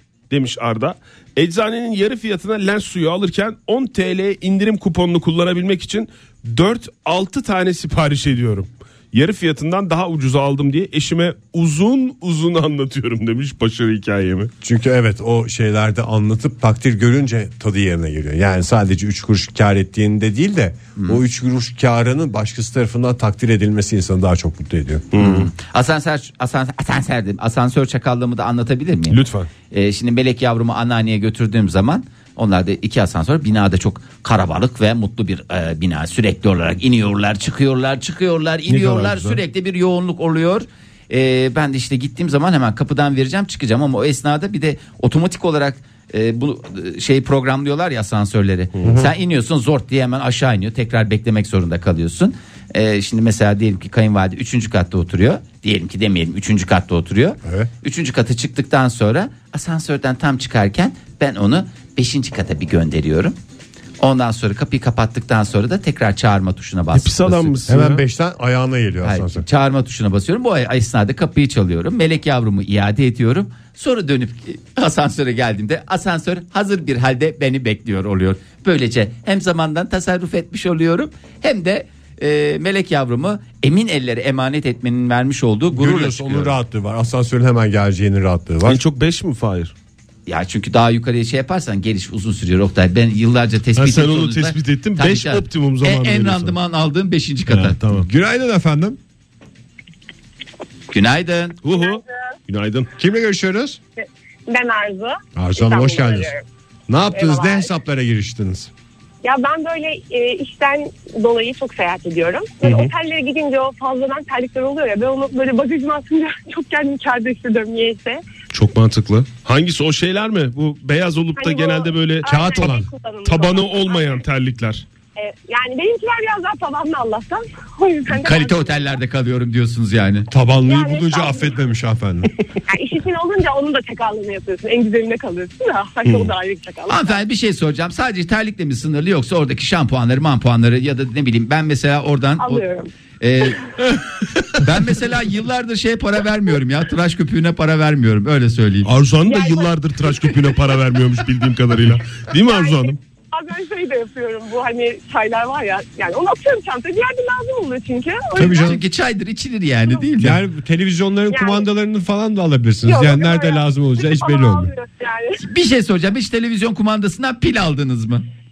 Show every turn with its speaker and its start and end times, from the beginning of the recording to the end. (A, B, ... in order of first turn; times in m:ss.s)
0:00.3-0:14.5 A
0:14.6-0:25.1 B
0:25.1-0:25.5 A
0:25.2-0:29.2 C
0:29.1-0:29.5 A
0:29.7-1:03.4 C
0:38.7-0:39.4 A
0:48.8-0:49.0 A
0:48.8-0:49.1 B
0:57.4-0:57.7 B
1:04.0-1:07.6 C
1:06.9-1:08.0 A
1:07.7-1:09.4 B
1:09.0-1:26.5 C
1:25.7-1:28.8 B
1:28.6-1:29.7 A
1:30.3-1:37.8 C
1:33.8-1:36.6 A
1:37.5-1:38.1 A
1:37.9-1:39.0 B
1:40.9-1:41.6 C
1:41.6-1:42.9 A
1:41.8-1:42.0 D
1:43.0-1:43.8 B
1:44.0-1:46.4 D
1:45.4-1:46.3 B
1:46.9-1:48.7 B
1:47.1-1:47.7 D
1:49.2-1:58.2 D
1:52.6-1:52.9 A
1:58.5-2:02.7 A
2:01.4-2:04.2 D
2:02.2-2:02.9 B
2:03.2-2:04.8 A
2:05.2-2:08.9 D
2:08.1-2:10.3 C
2:10.3-2:12.3 B
2:10.6-2:11.6 D
2:12.7-2:17.2 D
2:16.0-2:16.3 A
2:16.9-2:22.6 C
2:22.4-2:22.9 D
2:23.2-2:28.9 C
2:28.8-2:33.0 A
2:29.2-2:29.7 D
2:32.4-2:38.8 D
2:38.4-2:38.8 B
2:38.6-2:40.4 C
2:40.2-2:44.8 B
2:41.3-2:41.6 D
2:42.8-2:45.4 D
2:45.4-2:48.3 C